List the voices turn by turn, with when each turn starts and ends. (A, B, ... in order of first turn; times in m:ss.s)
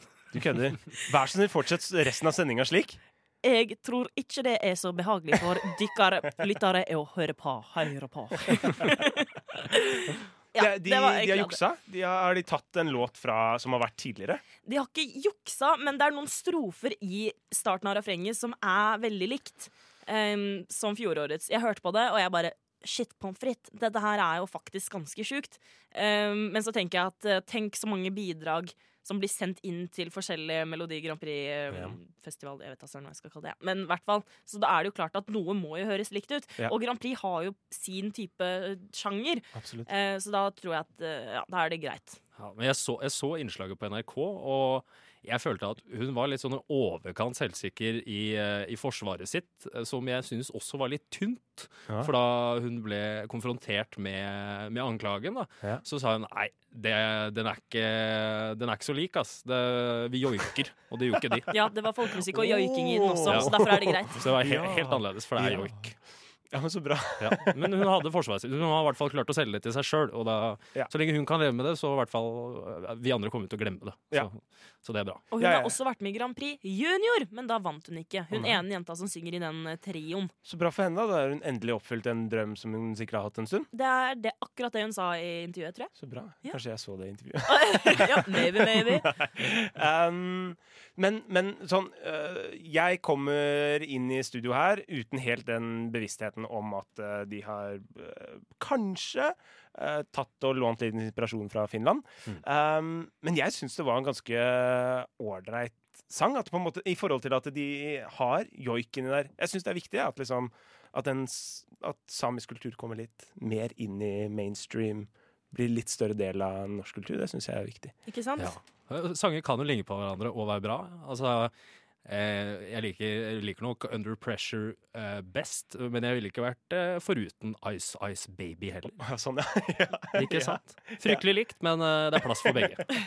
0:00.3-0:03.0 A
0:03.4-0:11.6 B
0:10.5-0:14.4 A
0:14.6-0:42.2 B
0:31.7-0:32.0 A
0:39.5-0:39.9 A
0:42.4-1:01.6 C
1:01.5-1:04.2 B
1:02.3-1:05.7 A
1:03.2-1:05.9 C
1:06.5-1:07.9 A
1:07.2-1:15.3 C
1:15.3-1:20.3 B
1:15.4-1:15.8 A
1:18.3-1:18.6 A
1:20.4-1:23.7 A
1:23.7-1:25.9 B
1:26.0-1:57.9 A
1:27.4-1:29.1 B
1:58.0-1:58.6 B
1:58.4-2:01.5 C
2:02.0-2:09.0 C
2:09.0-2:11.2 A
2:10.1-2:12.9 C
2:12.2-2:12.7 A